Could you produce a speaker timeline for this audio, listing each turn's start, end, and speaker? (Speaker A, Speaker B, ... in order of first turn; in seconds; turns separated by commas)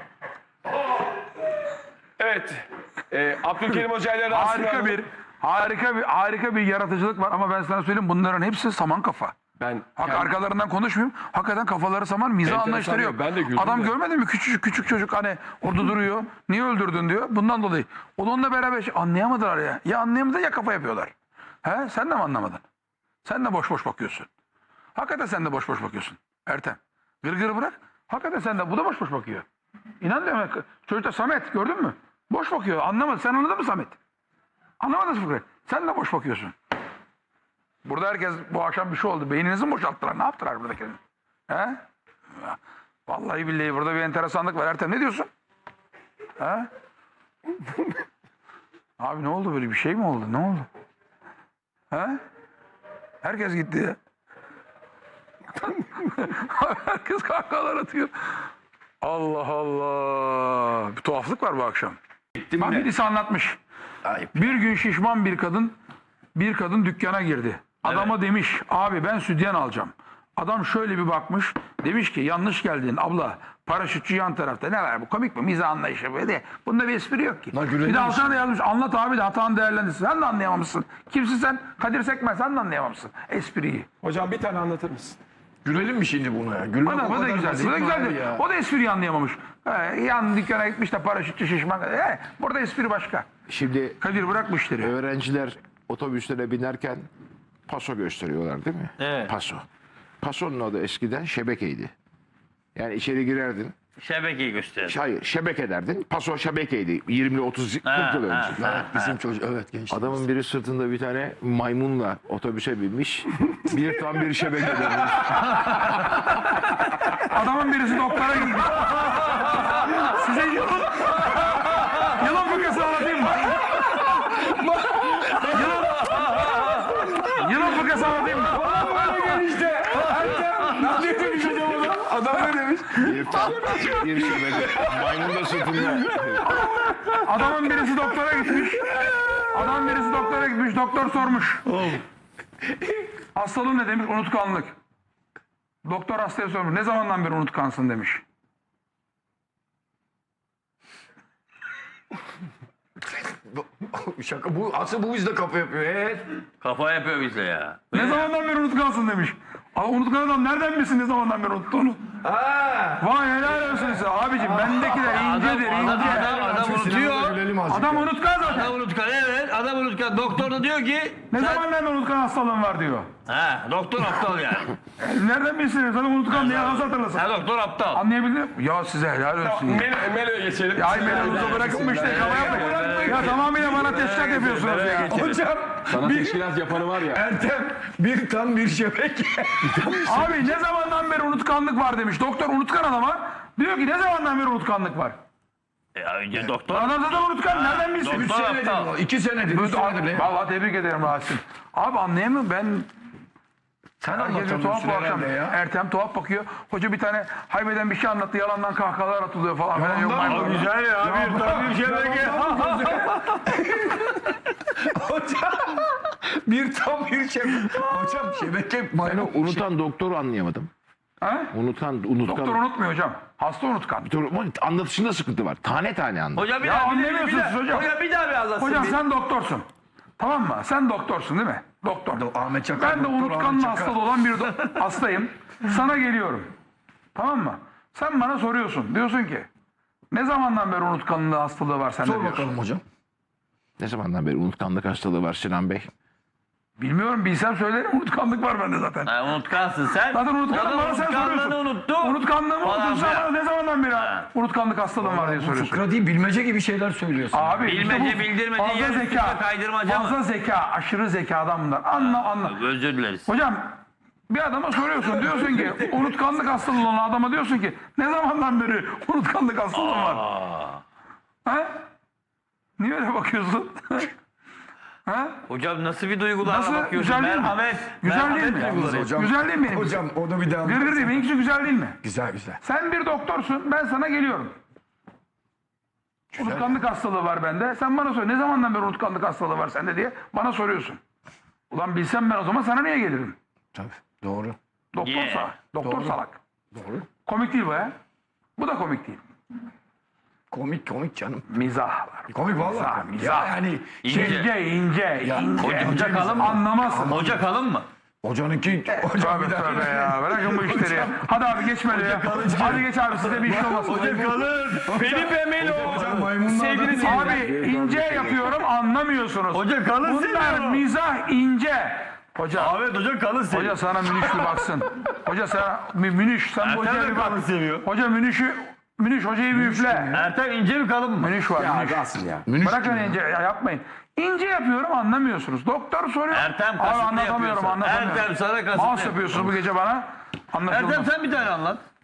Speaker A: 2.2-5.0, Speaker B: 4.3-9.3, Speaker A: 9.6-10.3, Speaker B: 10.0-22.6, Speaker A: 12.4-13.9, Speaker B: 23.2-24.3, Speaker B: 24.9-29.4, Speaker B: 30.0-34.0, Speaker B: 34.8-36.5, Speaker B: 37.9-41.8, Speaker B: 43.1-45.3, Speaker B: 46.4-46.7, Speaker B: 49.0-50.7, Speaker B: 51.9-52.2, Speaker B: 53.2-54.0, Speaker B: 55.8-58.3, Speaker B: 59.0-62.0, Speaker C: 62.4-62.9, Speaker B: 62.6-63.6, Speaker C: 64.0-64.6, Speaker B: 64.3-65.8, Speaker B: 66.3-83.9, Speaker D: 67.8-68.1, Speaker C: 77.5-78.4, Speaker A: 84.0-85.2, Speaker C: 85.7-88.4, Speaker B: 86.8-93.3, Speaker E: 93.5-94.0, Speaker B: 94.0-95.0, Speaker E: 94.8-97.1, Speaker E: 97.7-99.6, Speaker D: 99.0-99.3, Speaker E: 100.2-101.9, Speaker E: 102.8-103.7, Speaker D: 104.0-105.0, Speaker E: 104.8-108.7, Speaker D: 107.8-108.6, Speaker C: 108.5-110.2, Speaker E: 109.9-115.7, Speaker B: 117.1-123.7, Speaker C: 123.6-137.2, Speaker B: 125.5-126.3, Speaker D: 126.2-127.0, Speaker B: 127.3-128.7, Speaker E: 133.0-136.6, Speaker B: 136.4-141.6, Speaker C: 138.6-139.5, Speaker D: 141.7-142.0, Speaker B: 143.3-144.8, Speaker B: 145.8-148.2, Speaker C: 153.5-156.4, Speaker D: 156.6-158.3, Speaker B: 157.9-162.0, Speaker C: 162.2-163.1, Speaker B: 163.0-166.3, Speaker C: 163.6-165.2, Speaker D: 164.9-167.4, Speaker C: 165.8-168.2, Speaker B: 167.7-168.8, Speaker D: 168.4-171.6, Speaker B: 171.3-173.1, Speaker D: 173.3-174.8, Speaker B: 175.0-177.3, Speaker D: 176.3-178.0, Speaker B: 177.9-179.9, Speaker A: 179.4-185.3, Speaker B: 180.7-185.2, Speaker D: 181.2-183.5, Speaker C: 181.2-181.8, Speaker C: 182.4-183.2, Speaker D: 184.1-185.4, Speaker C: 185.1-190.5, Speaker A: 185.8-187.3, Speaker B: 190.1-195.2, Speaker D: 195.9-198.9, Speaker B: 196.7-198.3, Speaker C: 198.1-200.3, Speaker B: 199.5-202.9, Speaker C: 204.0-205.6, Speaker B: 204.0-210.7, Speaker C: 209.8-214.0, Speaker D: 210.2-213.8, Speaker C: 214.9-219.6, Speaker E: 219.1-220.7, Speaker B: 221.2-221.5, Speaker E: 221.5-222.6, Speaker B: 222.2-224.1, Speaker E: 224.0-226.5, Speaker D: 226.4-229.0, Speaker B: 226.6-227.9, Speaker B: 228.6-229.7, Speaker B: 230.2-236.5, Speaker C: 232.1-234.1, Speaker B: 237.2-239.5, Speaker B: 240.1-242.5, Speaker C: 242.0-242.8, Speaker E: 243.8-245.9, Speaker B: 246.8-249.1, Speaker D: 249.1-253.3, Speaker B: 250.1-255.8, Speaker D: 253.9-254.2, Speaker C: 255.0-257.7, Speaker B: 257.3-262.6, Speaker D: 257.6-260.2, Speaker D: 261.9-263.3, Speaker B: 263.2-270.2, Speaker D: 269.7-270.8, Speaker B: 271.4-271.7, Speaker B: 272.8-274.1, Speaker B: 275.1-275.4, Speaker D: 275.5-279.2, Speaker B: 276.4-280.0, Speaker C: 278.2-281.2, Speaker B: 280.6-282.0, Speaker C: 282.0-282.6, Speaker B: 282.6-284.6, Speaker C: 286.3-286.8, Speaker B: 286.4-291.0, Speaker B: 291.7-293.4, Speaker C: 293.8-294.6, Speaker B: 294.9-296.4, Speaker D: 295.0-295.5, Speaker C: 295.8-296.2, Speaker C: 296.7-297.1, Speaker B: 297.2-297.9, Speaker B: 298.6-299.2, Speaker C: 300.5-301.5, Speaker B: 301.5-303.6, Speaker C: 302.3-304.5, Speaker D: 304.0-304.5, Speaker B: 304.1-307.3, Speaker C: 305.2-307.5, Speaker D: 305.6-307.9, Speaker C: 308.2-311.3, Speaker B: 309.1-314.2, Speaker D: 311.9-315.0, Speaker C: 312.4-312.8, Speaker C: 313.4-318.4, Speaker A: 314.9-317.4, Speaker D: 315.8-316.3, Speaker B: 316.9-322.8, Speaker D: 319.5-320.8, Speaker D: 322.5-324.6, Speaker B: 323.5-330.2, Speaker D: 326.6-327.9, Speaker C: 329.5-329.9, Speaker D: 330.1-331.3, Speaker B: 331.2-332.0, Speaker A: 331.6-332.5, Speaker C: 332.5-333.2, Speaker B: 332.6-341.1, Speaker D: 336.3-339.4, Speaker D: 340.7-341.8